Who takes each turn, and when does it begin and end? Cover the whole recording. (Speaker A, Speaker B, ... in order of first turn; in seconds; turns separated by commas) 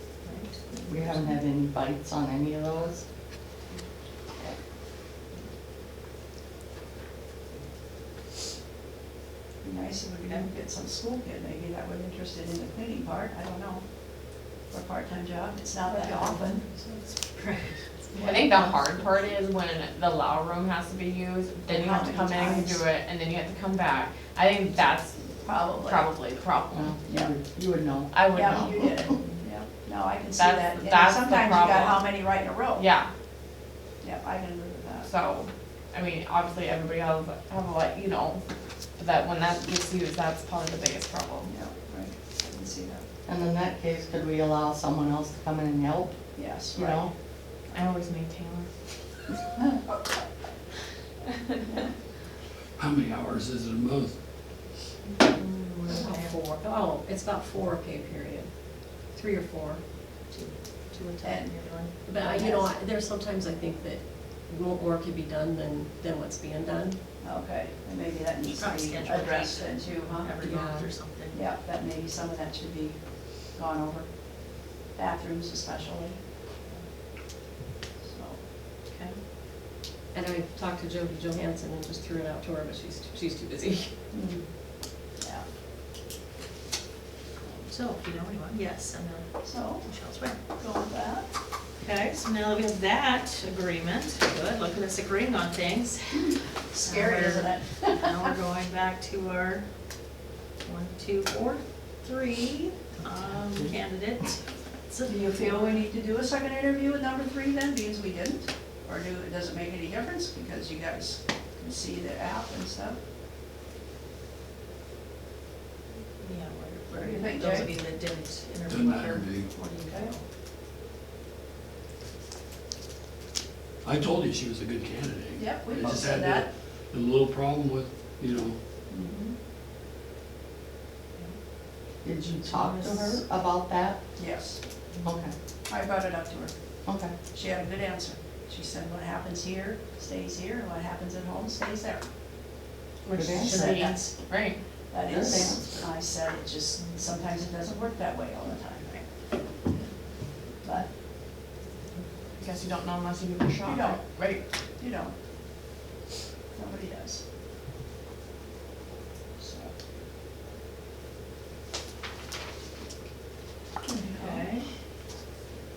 Speaker A: 0.2-1.4, Speaker B: 0.9-3.0, Speaker C: 9.6-16.6, Speaker A: 15.9-18.9, Speaker D: 18.1-26.9, Speaker C: 21.7-22.8, Speaker C: 25.4-26.1, Speaker B: 26.7-29.1, Speaker C: 27.1-27.3, Speaker D: 28.1-29.1, Speaker C: 28.3-32.8, Speaker D: 30.3-32.1, Speaker D: 32.7-33.1, Speaker C: 34.0-35.1, Speaker D: 35.0-41.5, Speaker C: 41.5-43.0, Speaker B: 43.3-46.6, Speaker C: 46.3-47.1, Speaker D: 46.7-48.7, Speaker E: 52.8-54.2, Speaker A: 55.1-56.5, Speaker F: 55.9-59.8, Speaker A: 60.3-62.0, Speaker C: 61.2-61.5, Speaker F: 62.0-67.0, Speaker C: 62.1-62.7, Speaker C: 67.2-70.3, Speaker A: 68.5-71.4, Speaker F: 70.4-70.9, Speaker C: 71.3-76.2, Speaker C: 78.0-78.4, Speaker A: 78.9-79.2, Speaker F: 80.1-83.9, Speaker C: 84.1-85.5, Speaker A: 87.7-90.4, Speaker C: 89.4-89.8, Speaker C: 90.5-91.3, Speaker A: 91.8-105.9, Speaker C: 96.1-98.1, Speaker B: 103.2-103.7, Speaker C: 105.1-113.0, Speaker A: 116.2-120.2, Speaker C: 116.9-117.7, Speaker E: 118.7-119.5, Speaker C: 119.9-120.1, Speaker E: 123.8-128.6, Speaker C: 125.3-126.5, Speaker C: 128.9-129.3, Speaker B: 132.0-134.1, Speaker A: 132.4-133.2, Speaker C: 134.2-134.6, Speaker B: 135.0-135.3, Speaker C: 135.7-136.5, Speaker B: 136.8-137.1, Speaker C: 137.3-142.1, Speaker D: 143.0-144.6, Speaker B: 143.1-143.7, Speaker C: 143.3-144.2, Speaker C: 144.9-149.3, Speaker B: 145.1-145.6, Speaker A: 146.8-147.1, Speaker C: 150.6-150.9, Speaker D: 152.3-154.4, Speaker C: 153.6-154.0, Speaker C: 154.8-155.2, Speaker C: 156.5-157.2, Speaker C: 159.4-159.7, Speaker C: 163.8-164.5, Speaker A: 164.2-164.7